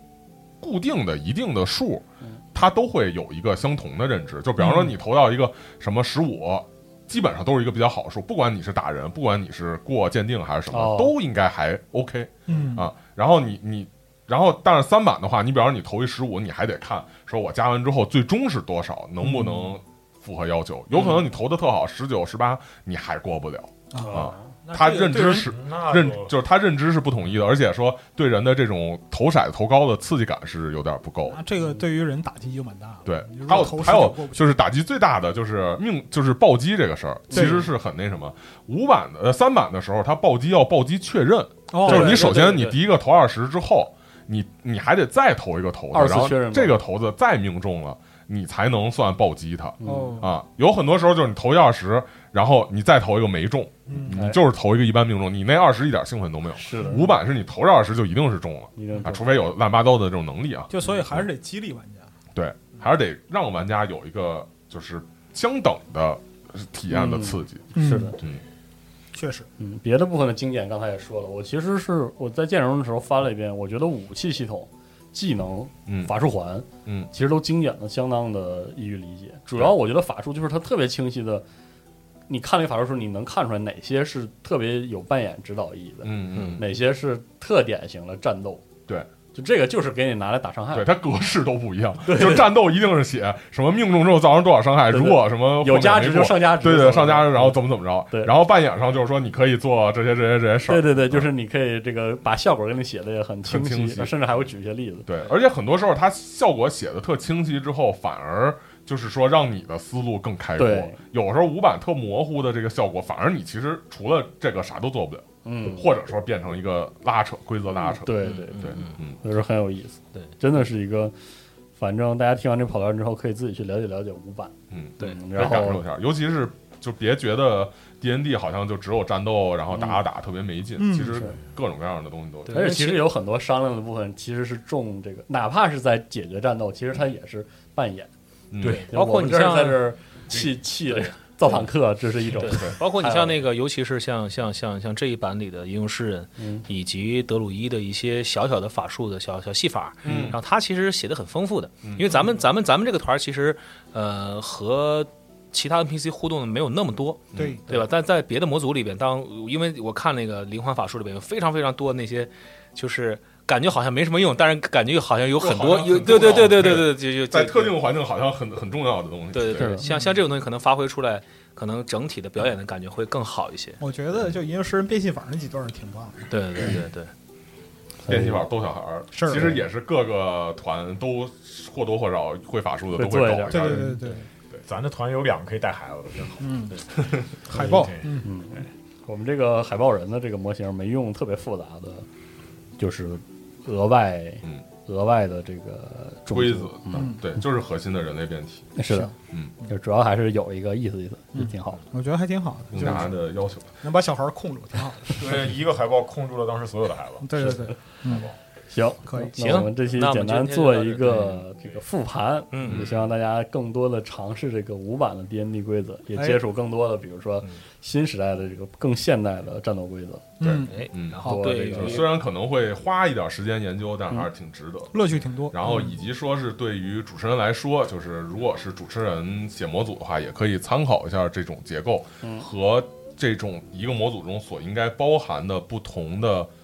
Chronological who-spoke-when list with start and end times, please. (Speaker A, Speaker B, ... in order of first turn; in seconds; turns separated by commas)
Speaker A: 0.6-31.4, Speaker B: 10.7-11.1, Speaker C: 12.5-12.9, Speaker C: 19.2-19.8, Speaker D: 20.9-21.2, Speaker C: 23.9-25.5, Speaker B: 24.0-24.5, Speaker E: 25.3-26.3, Speaker C: 31.3-34.6, Speaker B: 31.6-31.8, Speaker A: 33.0-61.3, Speaker C: 37.3-37.6, Speaker C: 41.7-42.2, Speaker D: 41.8-42.8, Speaker B: 45.9-46.8, Speaker B: 49.8-50.2, Speaker C: 49.8-50.3, Speaker C: 53.9-54.3, Speaker B: 54.1-54.4, Speaker B: 56.5-57.1, Speaker C: 56.8-57.0, Speaker B: 58.8-59.4, Speaker C: 60.7-62.1, Speaker A: 62.4-67.7, Speaker B: 66.9-68.2, Speaker C: 67.8-68.2, Speaker C: 69.1-69.5, Speaker B: 69.6-81.5, Speaker A: 75.9-76.1, Speaker A: 76.8-77.1, Speaker B: 82.3-88.6, Speaker A: 86.0-86.7, Speaker D: 86.4-86.6, Speaker B: 89.3-90.9, Speaker A: 90.7-101.3, Speaker B: 92.1-92.5, Speaker B: 94.9-97.6, Speaker B: 98.1-98.3, Speaker B: 100.7-105.1, Speaker A: 103.5-104.5, Speaker A: 105.1-119.2, Speaker B: 110.6-111.0, Speaker B: 115.5-115.9, Speaker B: 118.0-121.1, Speaker D: 118.2-119.0, Speaker B: 121.8-125.8, Speaker A: 124.7-132.8, Speaker B: 129.7-130.0, Speaker C: 130.8-131.2, Speaker D: 132.5-133.0, Speaker B: 132.5-138.1, Speaker A: 138.5-138.8, Speaker E: 138.6-138.9, Speaker D: 138.6-139.9, Speaker B: 138.9-143.4, Speaker D: 140.9-141.7, Speaker D: 142.4-167.8, Speaker B: 146.4-146.7, Speaker A: 150.0-150.4, Speaker B: 150.1-150.3, Speaker A: 151.8-152.1, Speaker A: 157.3-157.6, Speaker C: 157.3-157.6, Speaker A: 165.4-169.8, Speaker D: 169.3-173.8, Speaker B: 169.6-169.9, Speaker C: 169.8-170.2, Speaker C: 173.8-176.2, Speaker D: 176.3-177.1, Speaker B: 178.1-178.4, Speaker A: 178.1-184.0, Speaker C: 179.1-179.5, Speaker B: 182.9-184.0, Speaker C: 183.5-184.3, Speaker E: 184.7-188.7, Speaker C: 186.4-186.8, Speaker C: 187.5-188.3, Speaker B: 187.6-192.1, Speaker B: 192.8-197.1, Speaker A: 196.3-198.7, Speaker C: 197.0-197.2, Speaker B: 198.8-199.1, Speaker B: 199.6-201.8, Speaker C: 201.3-203.1, Speaker A: 202.7-203.7, Speaker C: 203.8-205.5, Speaker E: 205.2-208.3, Speaker C: 207.2-208.3, Speaker B: 208.7-220.4, Speaker C: 209.1-209.7, Speaker D: 209.4-211.4, Speaker D: 212.5-213.0, Speaker A: 212.7-212.9, Speaker C: 216.2-216.4, Speaker C: 220.4-221.5, Speaker A: 220.4-236.5, Speaker D: 220.7-222.1, Speaker B: 221.2-222.1, Speaker C: 224.9-225.8